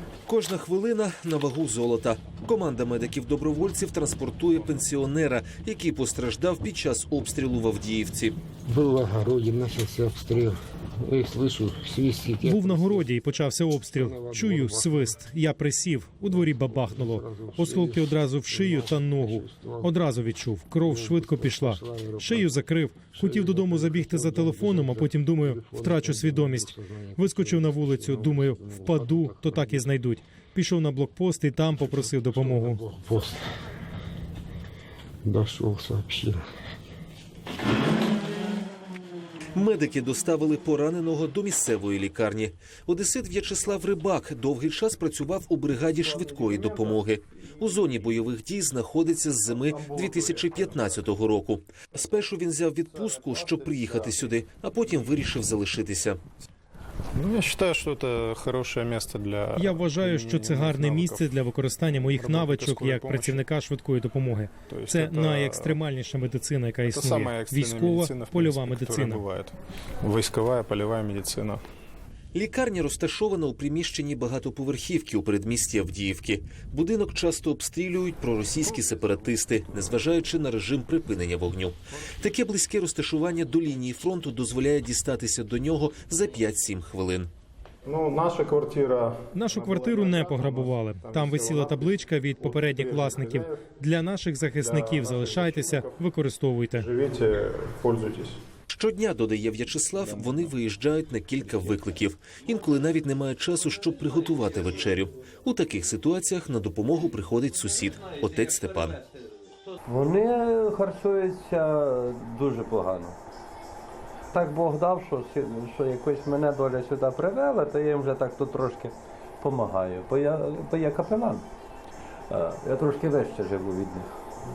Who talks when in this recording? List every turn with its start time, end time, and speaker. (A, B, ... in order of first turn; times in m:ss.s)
0:00.2-0:08.4 A
0:08.6-0:13.1 B
0:12.4-0:32.8 C
0:13.9-0:15.2 B
0:16.3-0:19.9 B
0:20.8-0:30.0 B
0:31.9-0:33.4 B
0:35.2-0:36.4 B
0:39.5-0:56.2 A
0:57.1-1:01.3 D
0:59.6-1:09.2 C
1:02.1-1:03.4 D
1:04.7-1:05.8 D
1:06.9-1:11.6 D
1:12.3-1:27.3 A
1:27.8-1:33.6 D
1:29.3-1:36.9 C
1:34.6-1:36.0 D
1:36.7-1:38.4 D
1:38.7-1:49.0 A
1:49.8-1:53.2 E
1:54.3-2:01.4 E
2:02.3-2:04.1 E